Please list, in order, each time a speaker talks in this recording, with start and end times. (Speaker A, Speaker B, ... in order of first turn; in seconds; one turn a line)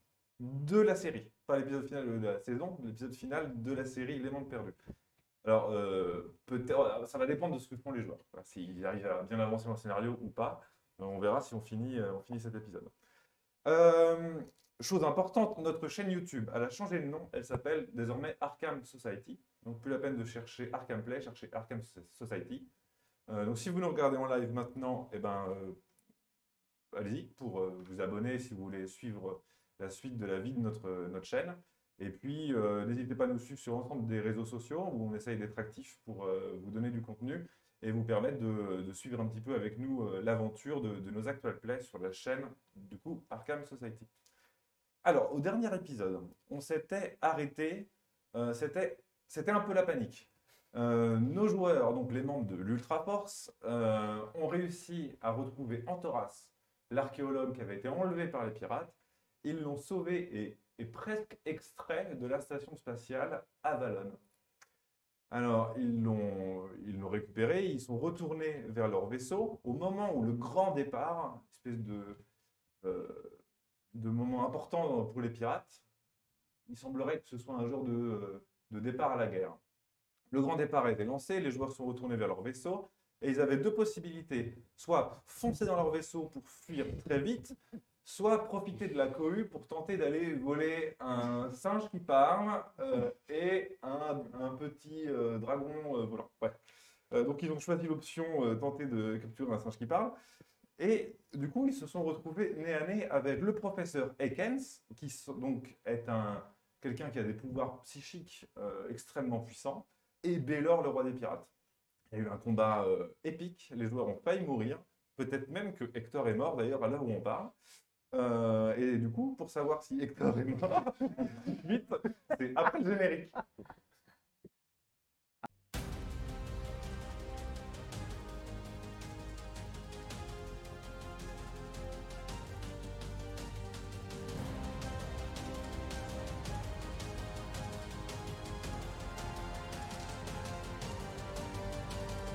Speaker A: 0.4-4.8
Speaker A: 5.4-12.9
Speaker A: 13.6-22.7
Speaker A: 23.3-25.8
Speaker A: 26.9-44.1
Speaker A: 45.0-64.2
Speaker A: 65.3-72.2
Speaker A: 72.8-73.4
Speaker A: 73.9-75.8
Speaker A: 76.7-79.6
Speaker A: 80.3-96.6
Speaker A: 97.1-100.2
Speaker A: 100.8-111.5
Speaker A: 112.1-117.5
Speaker A: 118.1-123.4